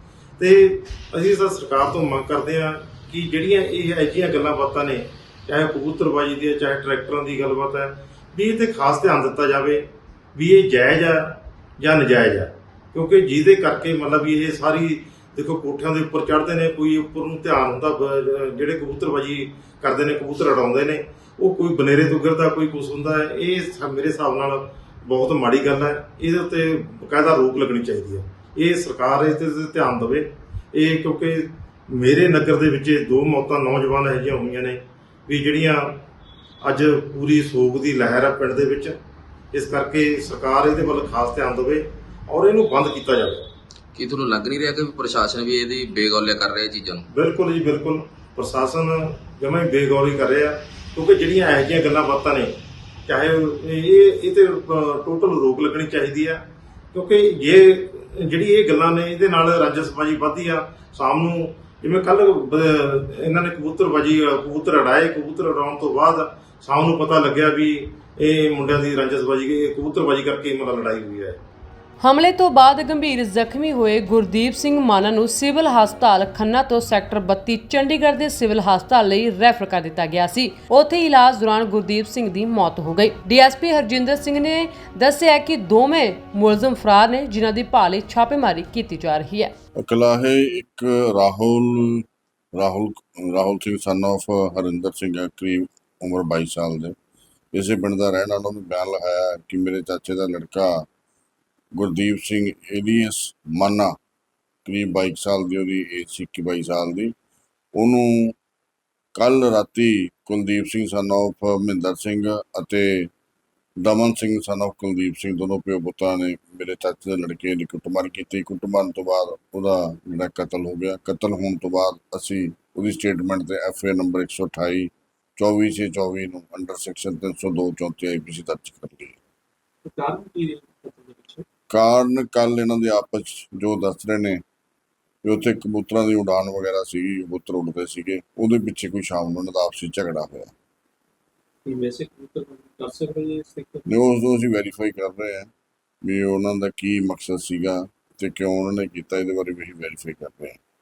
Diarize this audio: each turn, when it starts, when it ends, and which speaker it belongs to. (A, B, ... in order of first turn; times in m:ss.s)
0:00.4-0:36.0 A
0:36.6-0:39.0 A
0:39.5-0:43.5 A
0:44.0-0:47.0 B
0:47.1-0:52.6 A
0:53.1-0:56.4 A
0:56.9-1:11.4 A
1:12.0-1:29.5 C
1:29.8-1:32.0 D
1:32.6-1:36.9 D
1:37.5-1:40.9 D
1:41.8-1:43.9 D
1:44.7-1:47.1 D
1:47.8-1:48.4 D
1:49.2-1:53.1 D
1:53.8-2:09.2 D
2:09.8-2:11.4 E
2:11.7-2:14.4 D
2:15.2-2:20.5 D
2:21.7-2:23.9 E
2:23.9-2:25.5 D
2:26.0-2:30.6 D